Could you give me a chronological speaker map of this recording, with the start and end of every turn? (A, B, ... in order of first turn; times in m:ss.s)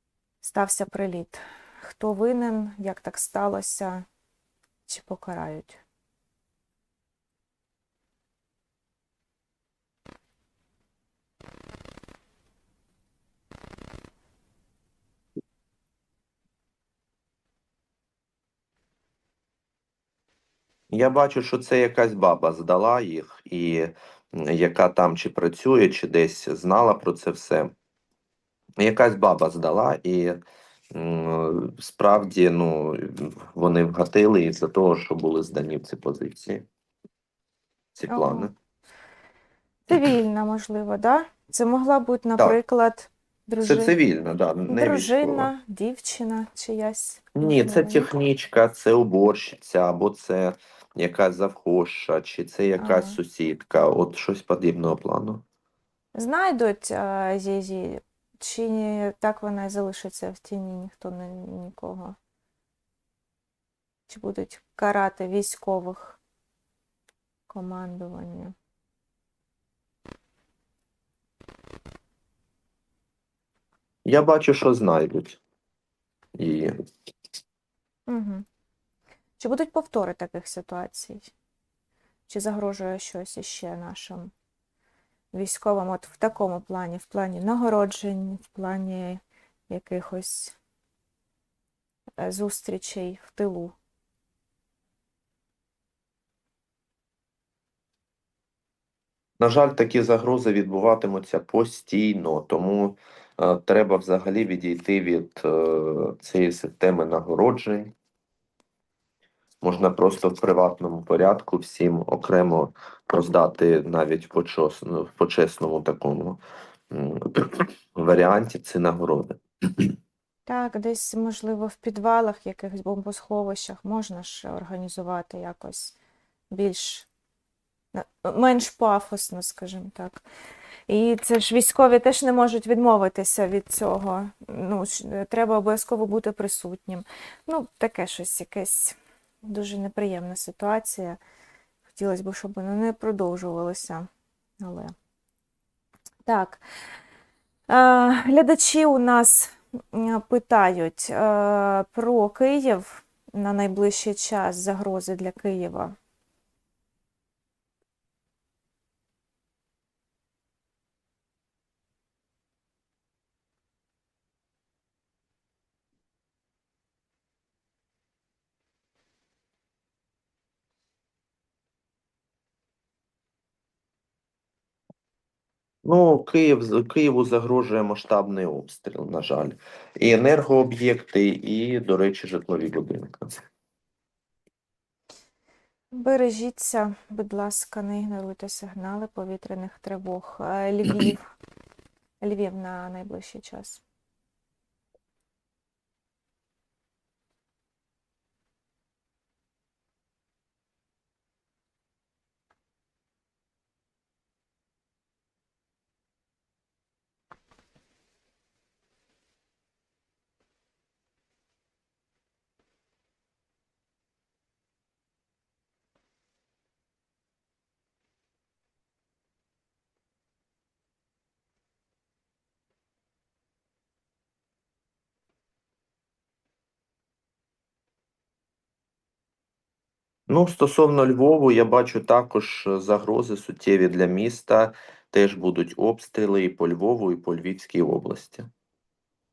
0:00.4-0:04.0 A
0:04.9-0:05.8 A
0:20.9-0:27.7 B
0:28.8-0:30.4 B
0:30.9-0:36.7 B
0:38.0-0:38.5 B
0:38.1-0:38.5 A
0:39.9-0:43.9 A
0:43.6-0:45.5 B
0:44.7-0:48.1 A
0:47.4-0:55.4 B
0:52.8-0:53.2 A
0:56.1-1:02.2 A
1:04.1-1:06.2 A
1:07.5-1:08.5 A
1:14.0-1:15.4 B
1:16.4-1:16.7 B
1:18.1-1:18.4 A
1:19.4-1:21.3 A
1:22.3-1:24.3 A
1:25.3-1:30.6 A
1:32.2-1:33.7 A
1:39.4-1:47.9 B
1:49.6-1:59.9 B
2:00.5-2:06.0 A
2:06.5-2:07.1 A
2:07.9-2:10.2 A
2:10.9-2:21.2 A
2:21.9-2:24.1 A
2:24.6-2:24.9 A
2:26.2-2:26.6 A
2:27.7-2:35.9 A
2:55.8-3:03.4 B
3:05.9-3:11.3 A
3:12.2-3:13.8 A
3:50.3-3:58.5 B